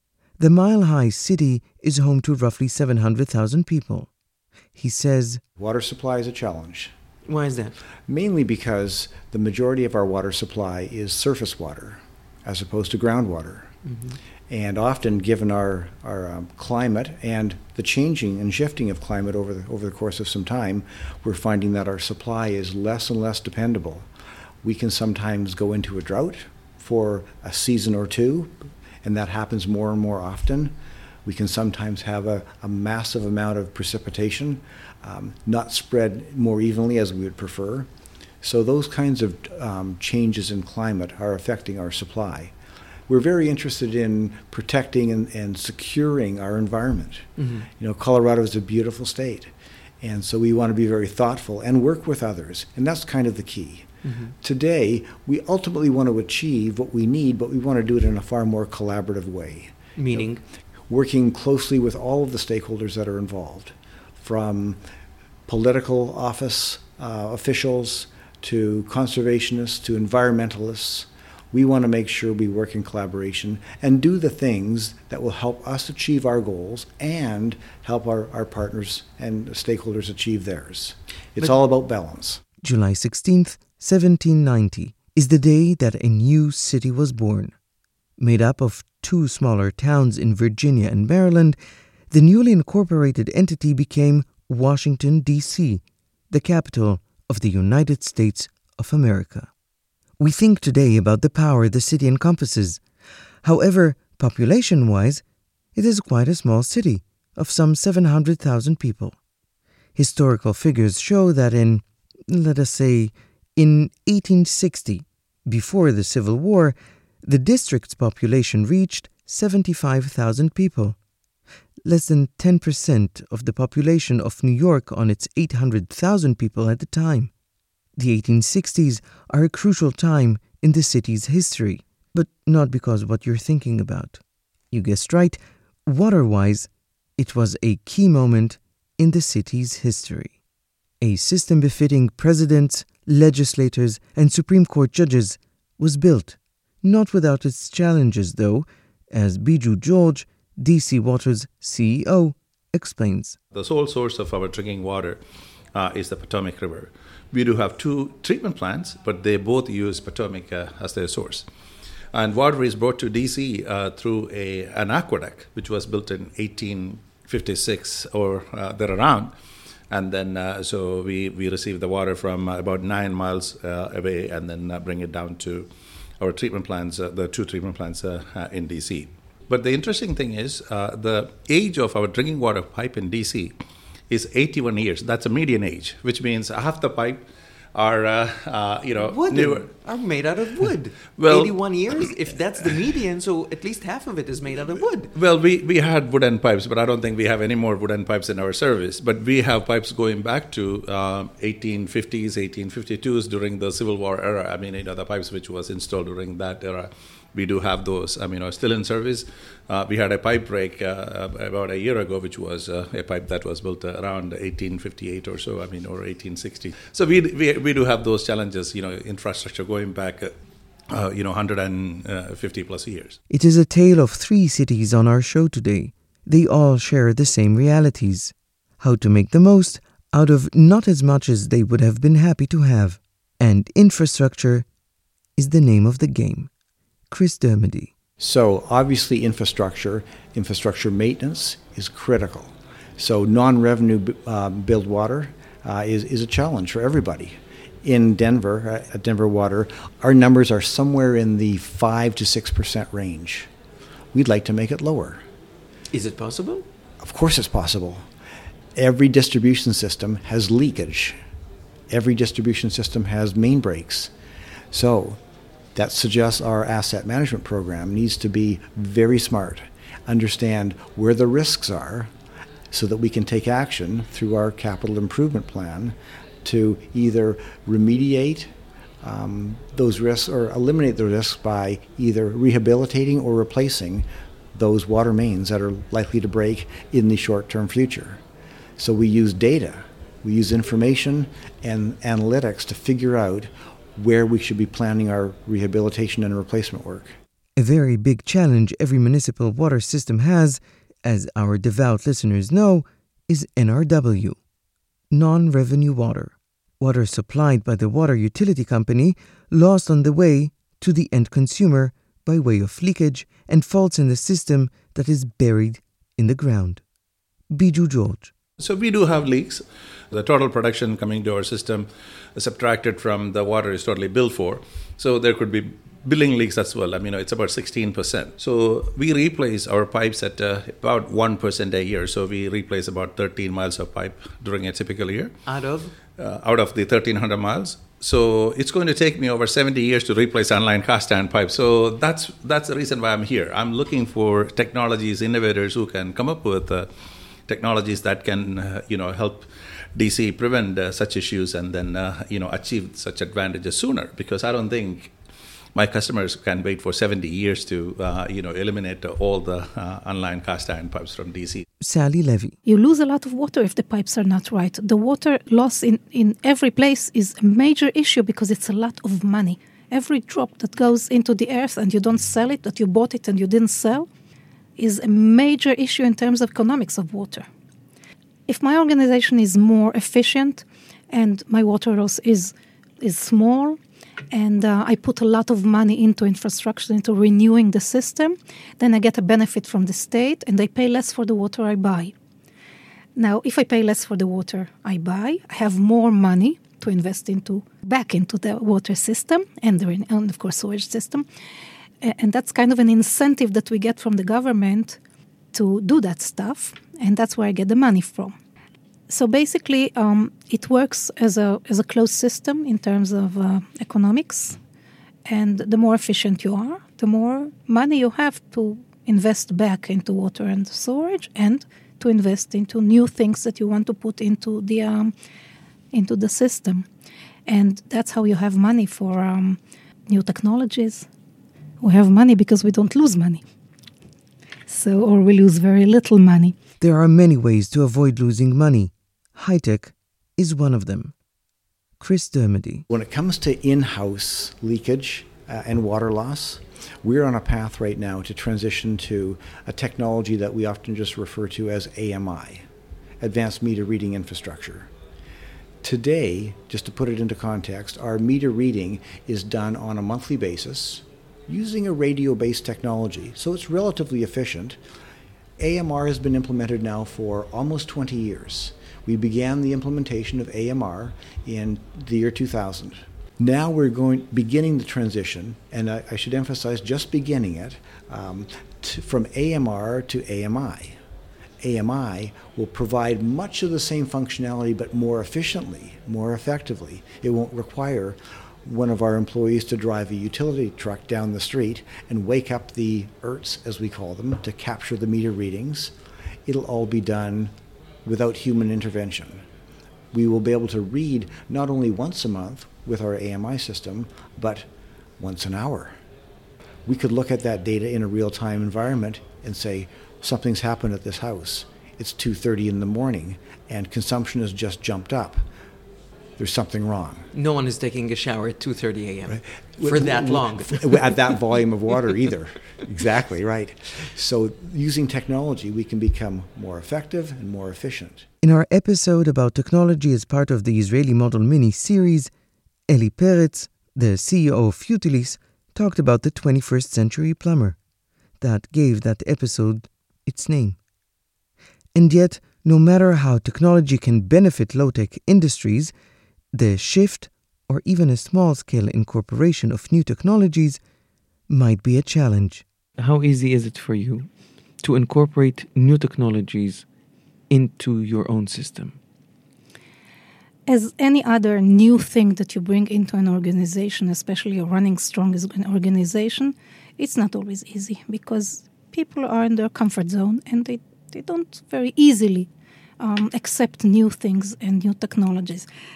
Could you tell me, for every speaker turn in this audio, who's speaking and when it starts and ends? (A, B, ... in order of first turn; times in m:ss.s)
0:00.4-0:04.1 A
0:04.8-0:05.4 A
0:05.6-0:06.9 B
0:07.2-0:07.8 C
0:08.1-0:13.7 B
0:13.8-0:14.2 C
0:14.5-0:24.1 B
0:24.6-0:30.7 B
0:31.2-0:37.9 B
0:38.4-0:42.5 B
0:43.1-1:00.3 B
0:47.4-0:47.7 C
0:54.0-0:54.3 C
1:00.0-1:00.4 C
1:00.9-1:04.8 B
1:05.5-1:22.4 B
1:22.6-1:27.5 A
1:28.2-1:31.6 A
1:32.1-1:39.5 A
1:40.2-1:42.8 A
1:43.4-1:45.2 A
1:45.7-1:49.1 A
1:50.0-2:01.0 A
2:01.8-2:07.3 A
2:08.0-2:14.2 A
2:14.7-2:20.3 A
2:21.0-2:33.4 A
2:33.5-2:35.2 D
2:35.7-2:41.4 D
2:42.1-2:49.3 D
2:49.9-2:55.7 D
2:56.2-3:03.5 D
3:04.1-3:07.2 D
3:07.7-3:09.7 D
3:09.0-3:15.1 C
3:11.2-3:11.6 D
3:15.1-3:40.3 D
3:40.9-3:43.2 D
3:43.3-3:54.6 A
3:55.4-3:56.5 A
3:57.1-3:57.9 A
3:58.2-4:13.5 B
4:14.1-4:15.2 B
4:15.9-4:16.7 C
4:17.0-4:18.0 B
4:18.8-4:21.2 B
4:21.9-4:24.1 B
4:24.7-4:25.2 B
4:25.7-4:32.1 B
4:32.7-4:38.5 B
4:39.0-4:48.2 B
4:48.8-4:57.2 B
4:57.6-5:04.4 A
5:05.1-5:16.8 A
5:17.5-5:18.3 A
5:18.6-5:35.3 D
5:35.4-5:35.9 C
5:36.2-5:46.9 D
5:47.5-5:55.1 D
5:55.7-6:01.6 D
6:01.8-6:02.6 A
6:02.6-6:14.1 E
6:14.8-6:17.5 E
6:18.5-6:23.8 E
6:24.3-6:32.1 E
6:33.2-6:41.2 E
6:42.0-6:45.0 E
6:45.5-6:48.3 E
6:49.1-6:54.6 E
6:55.2-7:05.1 E
7:05.9-7:06.9 E
7:07.5-7:11.1 E
7:11.8-7:13.4 E
7:14.7-7:16.5 E
7:16.8-7:21.1 A
7:22.0-7:22.8 A
7:22.9-7:32.6 B
7:33.2-7:34.9 B
7:35.8-7:44.8 B
7:45.6-8:01.0 B
8:01.6-8:15.9 B
8:16.4-8:17.5 B
8:18.0-8:19.4 B
8:20.1-8:24.7 B
8:25.2-8:25.9 B
8:26.8-8:35.4 B
8:36.4-8:37.3 B
8:37.3-8:41.3 C
8:39.3-8:48.3 B
8:48.4-8:52.3 A
8:52.9-8:57.8 A
8:58.4-9:00.8 A
9:01.9-9:05.9 A
9:06.5-9:10.8 A
9:11.5-9:12.6 A
9:13.0-9:14.3 C
9:14.8-9:16.8 C
9:17.5-9:19.0 C
9:20.7-9:32.5 E
9:33.0-9:35.6 E